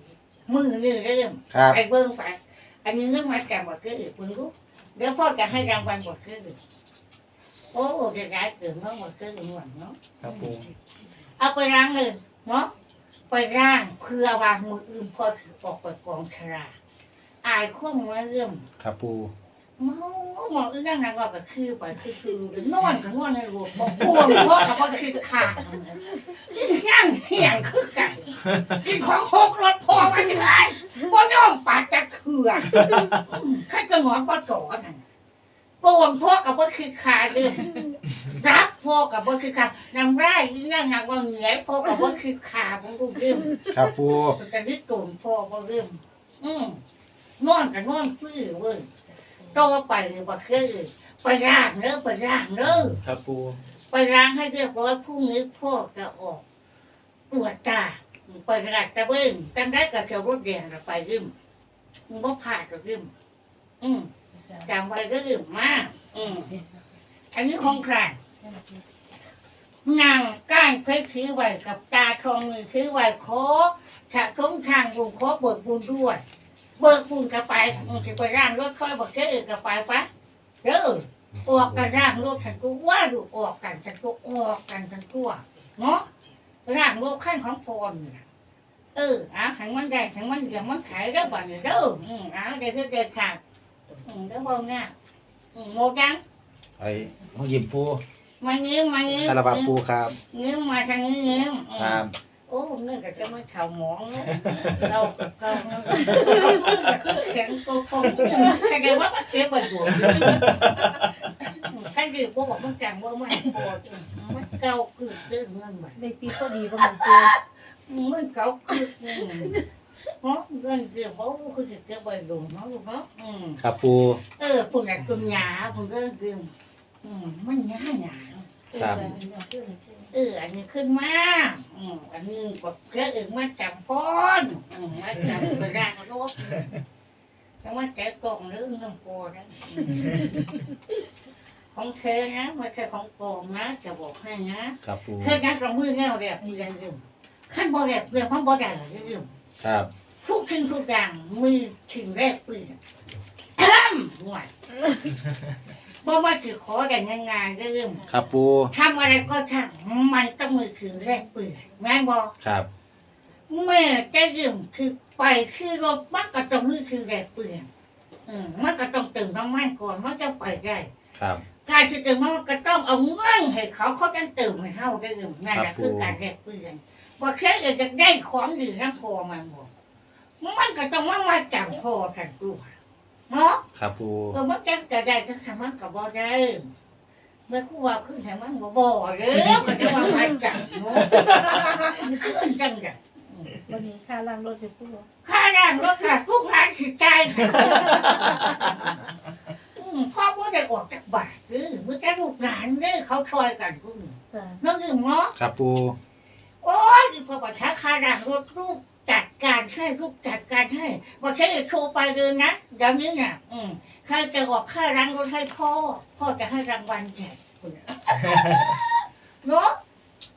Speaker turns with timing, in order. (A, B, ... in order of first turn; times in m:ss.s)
0:00.5-0:06.6 A
0:01.5-0:01.8 B
0:07.7-0:10.0 A
0:10.2-0:10.7 C
0:11.4-0:12.7 A
0:13.3-0:16.8 A
0:17.4-0:18.7 A
0:18.8-0:19.3 B
0:19.8-0:35.0 A
0:32.7-0:33.2 C
0:35.8-0:43.6 A
0:43.7-0:44.4 B
0:44.3-0:46.8 A
0:47.4-0:48.9 A
0:49.5-0:53.0 A
0:53.0-0:53.6 C
0:53.9-0:56.4 A
0:57.3-1:01.3 A
1:02.1-1:03.1 A
1:03.8-1:04.1 A
1:04.6-1:06.5 A
1:07.3-1:08.2 A
1:08.5-1:08.8 D
1:09.8-1:16.2 A
1:16.8-1:20.1 A
1:20.6-1:26.1 A
1:26.7-1:28.2 A
1:29.0-1:33.4 A
1:34.0-1:34.9 A
1:35.5-1:36.2 A
1:36.8-1:38.0 B
1:38.4-1:39.8 A
1:39.2-1:40.2 B
1:40.3-1:50.9 A
1:41.8-1:42.1 B
1:44.4-1:44.8 C
1:46.1-1:46.5 D
1:50.0-1:50.5 C
1:51.6-1:56.0 A
1:56.0-1:57.4 D
1:56.8-1:57.1 A
1:57.9-1:59.6 A
1:59.3-1:59.6 D
2:00.2-2:03.6 A
2:03.6-2:04.2 B
2:04.4-2:06.5 A
2:07.0-2:09.1 A
2:08.7-2:10.1 D
2:08.8-2:09.1 B
2:10.1-2:16.7 A
2:17.6-2:20.3 A
2:21.7-2:29.3 A
2:24.8-2:25.4 B
2:29.6-2:29.9 B
2:30.2-2:32.8 A
2:33.6-2:34.5 A
2:36.0-2:38.1 A
2:38.1-2:38.7 B
2:38.7-2:42.3 A
2:42.4-2:42.7 B
2:43.5-2:47.7 A
2:48.3-2:50.9 A
2:51.2-2:51.4 B
2:51.6-2:59.7 A
2:55.5-2:56.2 B
3:00.4-3:02.7 A
3:03.3-3:03.6 A
3:03.8-3:04.4 B
3:04.3-3:06.7 A
3:07.5-3:13.6 A
3:11.1-3:12.1 D
3:13.7-3:15.1 D
3:15.2-3:18.6 A
3:19.8-3:25.4 A
3:24.3-3:24.6 D
3:25.4-3:26.0 B
3:26.6-3:39.8 A